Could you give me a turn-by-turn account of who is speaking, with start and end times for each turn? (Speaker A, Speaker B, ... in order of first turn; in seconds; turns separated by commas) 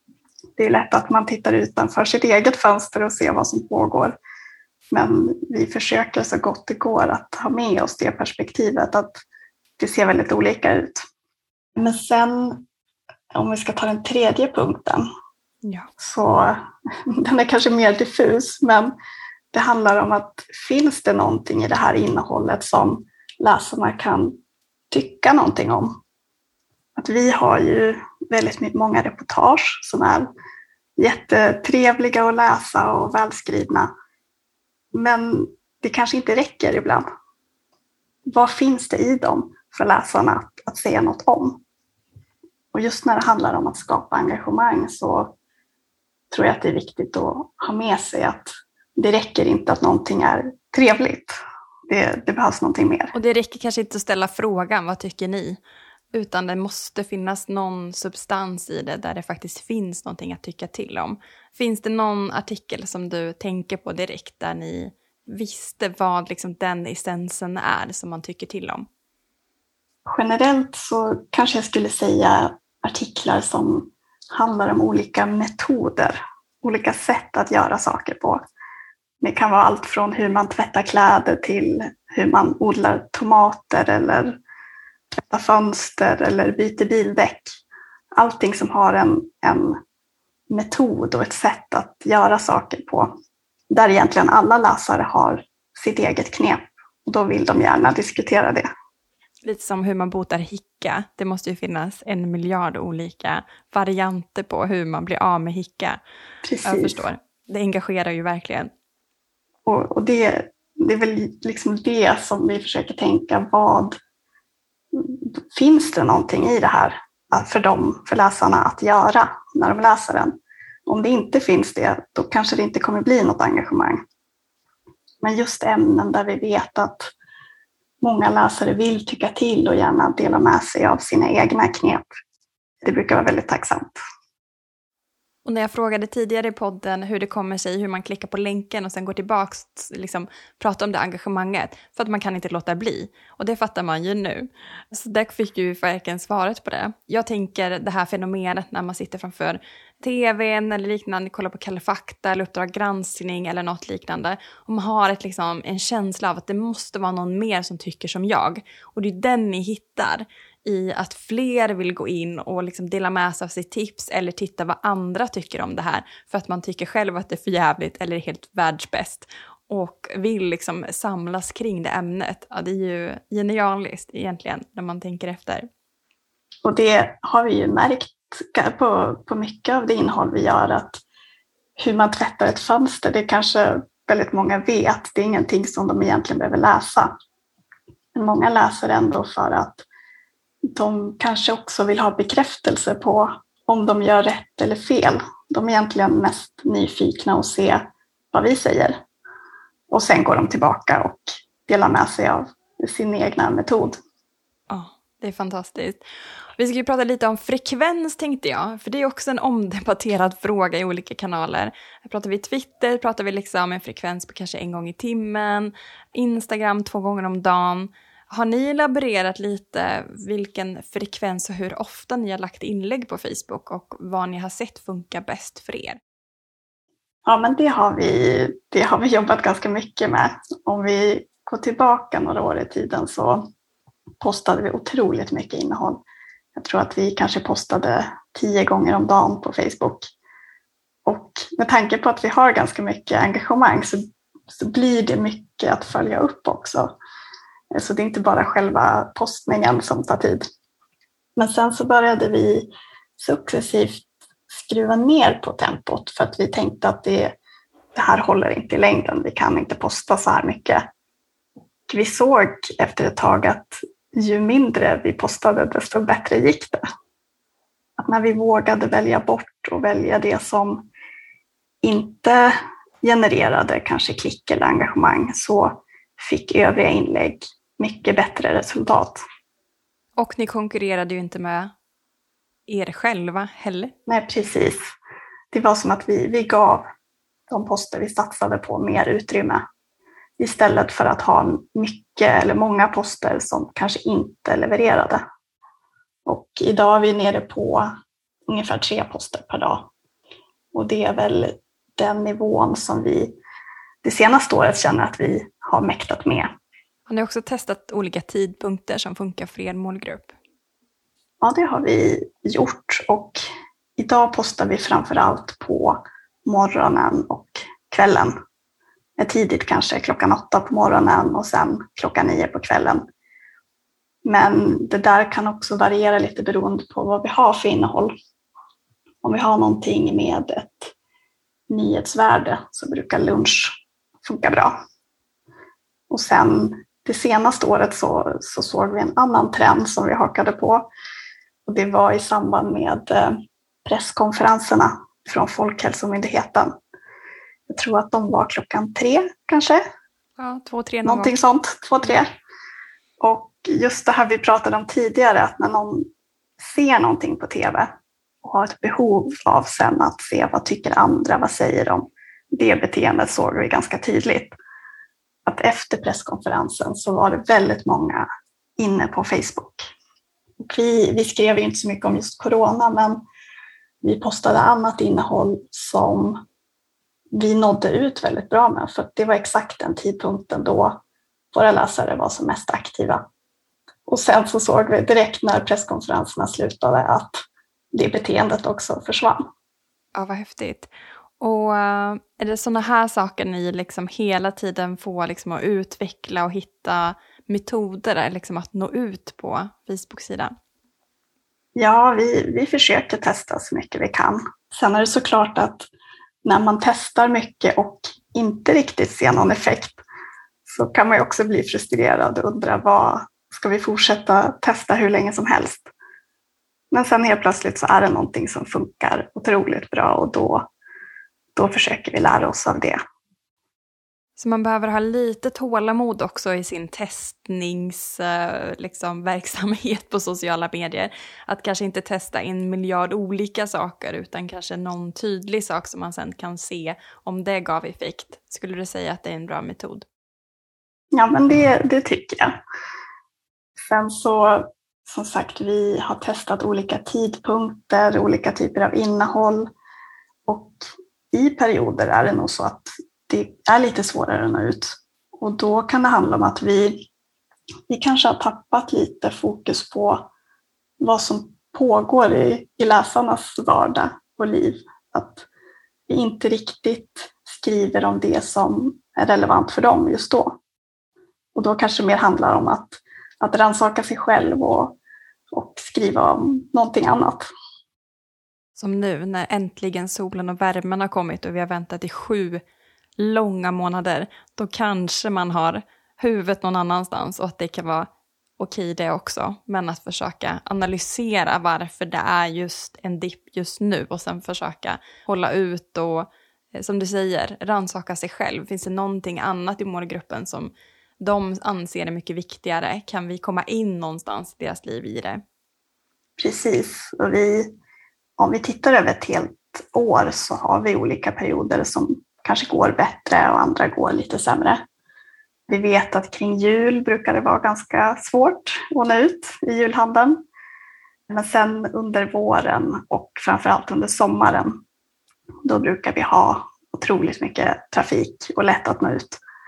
Speaker A: 0.6-4.1, Speaker A: 4.9-9.2, Speaker A: 9.8-11.0, Speaker A: 11.8-12.6, Speaker A: 13.3-15.1, Speaker B: 15.6-15.9, Speaker A: 16.0-18.9, Speaker A: 19.5-24.4, Speaker A: 24.9-26.0, Speaker A: 26.9-30.3, Speaker A: 31.0-33.9, Speaker A: 34.9-37.0, Speaker A: 38.2-41.6, Speaker A: 42.7-45.3, Speaker A: 46.3-51.3, Speaker A: 51.9-53.1, Speaker B: 53.1-55.6, Speaker B: 56.1-68.9, Speaker A: 70.0-78.4, Speaker A: 79.2-84.4, Speaker A: 85.1-87.6, Speaker A: 88.1-89.8, Speaker A: 90.5-93.1, Speaker A: 93.7-98.7, Speaker B: 99.4-106.0, Speaker A: 106.4-107.0, Speaker B: 106.6-108.7, Speaker A: 109.7-114.0, Speaker A: 114.9-120.3, Speaker A: 120.8-124.0, Speaker A: 125.2-127.1, Speaker A: 128.0-132.1, Speaker A: 132.8-134.0, Speaker B: 135.4-175.7, Speaker A: 176.6-181.0, Speaker A: 181.8-187.1, Speaker A: 188.1-189.8, Speaker A: 190.6-199.0, Speaker A: 199.9-204.0, Speaker B: 204.7-206.0, Speaker B: 206.6-226.0, Speaker A: 227.2-233.5, Speaker A: 234.2-236.0, Speaker A: 236.5-240.1, Speaker A: 241.0-246.9, Speaker A: 247.7-250.4, Speaker A: 251.3-257.3, Speaker A: 257.9-260.8, Speaker A: 261.9-266.8, Speaker A: 268.0-270.9, Speaker A: 271.8-272.5, Speaker A: 273.0-279.2, Speaker B: 280.2-281.7, Speaker B: 282.7-283.9, Speaker A: 284.1-284.8, Speaker A: 285.5-286.8, Speaker A: 287.5-289.6, Speaker A: 290.4-295.2, Speaker A: 296.2-297.9, Speaker A: 298.5-299.9, Speaker A: 300.7-303.3, Speaker A: 304.0-306.5, Speaker B: 307.1-310.3, Speaker A: 311.4-313.4, Speaker A: 314.0-318.3, Speaker A: 319.2-323.0, Speaker A: 324.2-328.1, Speaker A: 329.2-330.9, Speaker A: 331.7-334.8, Speaker A: 336.1-340.9, Speaker A: 341.6-346.7, Speaker A: 347.7-349.8, Speaker B: 350.4-351.4, Speaker A: 351.0-352.3, Speaker A: 353.2-356.1, Speaker A: 356.6-357.9, Speaker A: 358.4-364.6, Speaker A: 365.4-368.3, Speaker A: 368.8-369.8, Speaker A: 370.6-373.2, Speaker A: 374.0-376.4, Speaker A: 377.3-381.0, Speaker A: 381.5-383.2, Speaker A: 384.1-389.4, Speaker B: 390.1-400.5, Speaker A: 401.8-405.9, Speaker A: 406.4-410.0, Speaker A: 410.6-415.9, Speaker A: 416.9-420.6, Speaker A: 421.6-423.0, Speaker B: 424.4-440.0, Speaker A: 441.1-442.5, Speaker A: 443.8-449.7, Speaker A: 450.4-457.1, Speaker A: 457.9-460.3, Speaker A: 461.0-465.4, Speaker A: 466.1-470.6, Speaker A: 471.5-474.9, Speaker A: 475.5-477.5, Speaker B: 478.8-482.6, Speaker B: 483.2-505.4, Speaker A: 506.4-507.7, Speaker A: 508.4-514.8, Speaker A: 515.7-520.4, Speaker A: 521.3-524.8, Speaker A: 525.6-529.4